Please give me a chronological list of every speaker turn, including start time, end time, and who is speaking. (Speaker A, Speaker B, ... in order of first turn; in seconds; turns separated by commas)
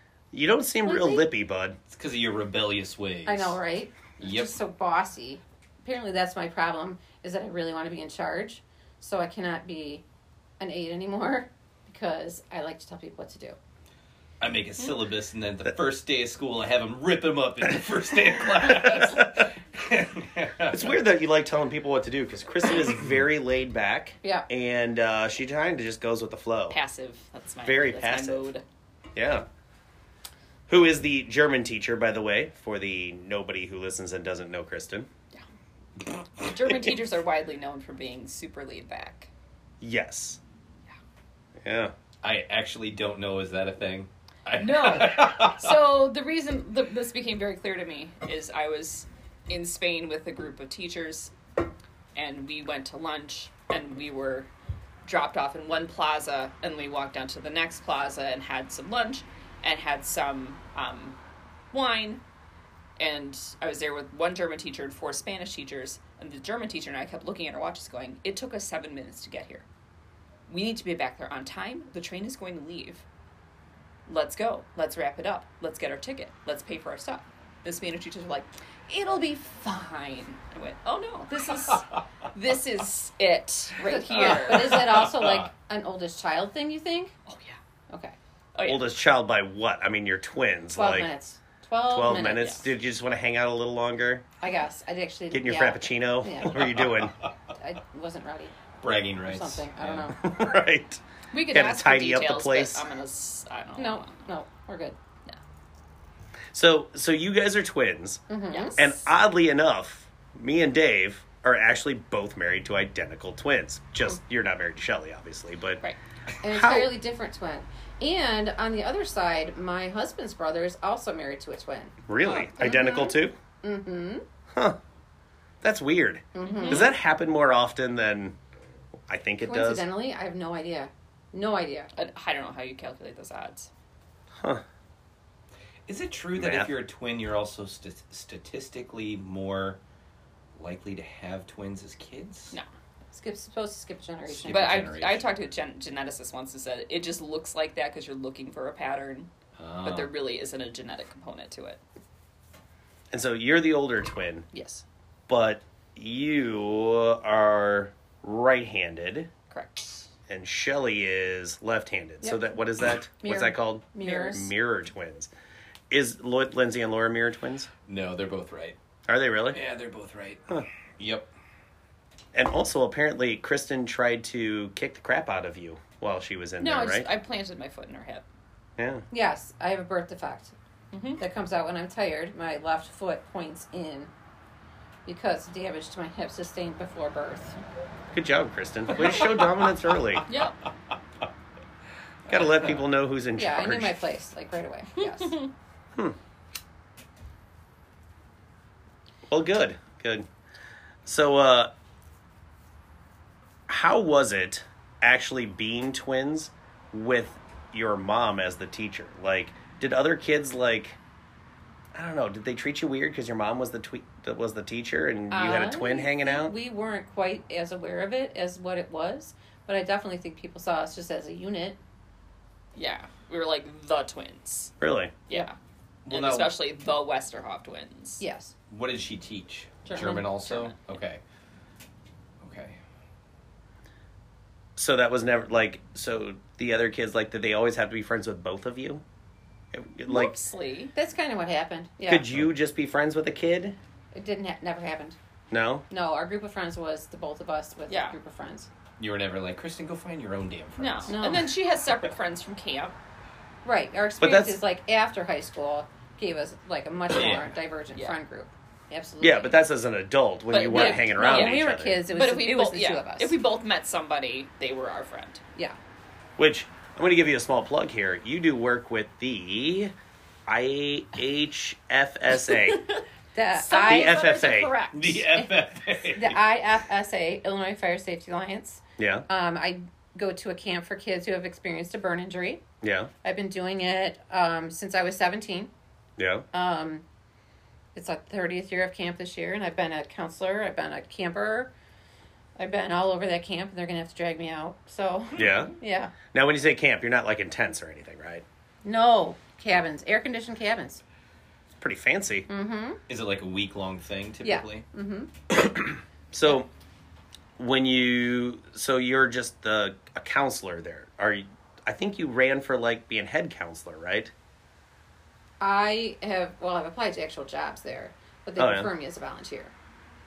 Speaker A: 0.3-1.8, Speaker B: 0.8-1.3, Speaker C: 1.9-3.6, Speaker B: 3.2-10.0, Speaker C: 4.2-4.5, Speaker B: 10.6-13.6, Speaker C: 14.4-20.9, Speaker A: 18.8-19.5, Speaker A: 20.7-26.8, Speaker D: 26.7-28.6, Speaker A: 27.6-28.4, Speaker A: 29.1-29.4, Speaker A: 30.7-35.1, Speaker D: 36.4-39.3, Speaker A: 39.8-40.4, Speaker A: 41.6-41.9, Speaker C: 42.2-45.6, Speaker D: 44.6-51.3, Speaker D: 52.1-54.5, Speaker D: 55.0-61.2, Speaker D: 61.7-62.2, Speaker D: 63.0-69.6, Speaker D: 70.5-73.0, Speaker D: 74.1-84.8, Speaker C: 81.6-82.0, Speaker B: 83.8-87.1, Speaker C: 84.3-85.5, Speaker D: 87.3-87.6, Speaker B: 87.9-88.2, Speaker D: 88.5-88.9, Speaker A: 88.6-91.1, Speaker B: 90.8-92.6, Speaker A: 91.9-94.2, Speaker B: 94.4-96.8, Speaker A: 95.3-97.2, Speaker B: 97.5-98.5, Speaker C: 98.8-100.0, Speaker B: 99.2-100.2, Speaker A: 100.1-102.8, Speaker D: 101.3-104.2, Speaker B: 103.8-105.0, Speaker A: 106.5-108.2, Speaker B: 108.3-108.9, Speaker D: 108.5-109.0, Speaker A: 108.8-115.8, Speaker B: 116.4-122.0, Speaker A: 116.5-116.9, Speaker A: 122.1-123.3, Speaker B: 122.6-124.2, Speaker A: 124.5-124.8, Speaker A: 125.6-128.4, Speaker B: 126.3-126.9, Speaker D: 126.4-126.9, Speaker A: 129.1-129.9, Speaker B: 129.4-131.9, Speaker D: 131.9-133.7, Speaker C: 135.9-139.8, Speaker A: 136.3-136.7, Speaker C: 140.6-142.5, Speaker B: 143.1-144.8, Speaker C: 144.3-145.3, Speaker D: 144.5-149.3, Speaker C: 149.6-150.1, Speaker D: 149.8-151.8, Speaker A: 153.1-154.5, Speaker D: 154.5-154.8, Speaker A: 155.3-159.3, Speaker D: 159.5-160.1, Speaker A: 160.3-165.3, Speaker B: 163.2-164.5, Speaker D: 164.0-164.4, Speaker A: 165.9-167.7, Speaker C: 167.8-168.8, Speaker A: 169.1-169.6, Speaker C: 169.5-170.5, Speaker C: 171.0-171.3, Speaker A: 172.3-177.1, Speaker D: 176.6-178.2, Speaker A: 178.8-179.0, Speaker B: 179.1-180.5, Speaker D: 180.9-181.2, Speaker B: 181.2-184.1, Speaker B: 185.1-187.6, Speaker A: 188.1-190.2, Speaker D: 190.3-190.6, Speaker A: 192.3-194.0, Speaker C: 192.3-192.8, Speaker B: 193.3-195.4, Speaker D: 195.0-195.5, Speaker A: 199.3-200.3, Speaker A: 201.0-201.7, Speaker A: 203.7-211.0, Speaker A: 211.9-216.5, Speaker B: 215.3-221.8, Speaker D: 222.8-224.7, Speaker A: 224.8-225.1, Speaker D: 225.3-225.6, Speaker C: 226.1-226.5, Speaker D: 226.1-228.2, Speaker B: 228.2-228.5, Speaker C: 228.7-231.2, Speaker D: 229.8-230.8, Speaker C: 232.4-232.8, Speaker A: 234.8-239.0, Speaker A: 239.7-240.3, Speaker D: 240.1-240.9, Speaker B: 240.9-242.3, Speaker A: 242.1-243.8, Speaker B: 244.1-245.2, Speaker A: 245.5-245.8, Speaker B: 245.9-248.7, Speaker D: 247.9-248.2, Speaker C: 249.0-251.2, Speaker D: 250.8-252.9, Speaker B: 251.1-251.5, Speaker B: 253.6-259.6, Speaker A: 254.2-254.6, Speaker C: 257.1-257.5, Speaker A: 259.2-262.0, Speaker D: 260.5-265.4, Speaker B: 260.6-263.3, Speaker A: 266.4-269.9, Speaker A: 270.5-272.8, Speaker D: 272.6-273.0, Speaker B: 273.3-274.2, Speaker D: 273.5-275.2, Speaker A: 273.8-274.8, Speaker C: 274.9-276.4, Speaker B: 276.1-282.6, Speaker A: 279.0-279.2, Speaker A: 282.8-283.1, Speaker B: 283.2-285.7, Speaker A: 286.2-286.4, Speaker B: 286.5-287.0, Speaker B: 287.9-291.7, Speaker B: 292.6-296.1, Speaker A: 295.4-295.7, Speaker A: 296.3-298.4, Speaker B: 298.8-301.0, Speaker A: 301.8-302.5, Speaker B: 302.5-303.0, Speaker C: 303.1-304.8, Speaker B: 304.4-305.3, Speaker A: 306.3-306.7, Speaker A: 307.6-314.3, Speaker B: 315.6-319.7, Speaker A: 318.6-318.9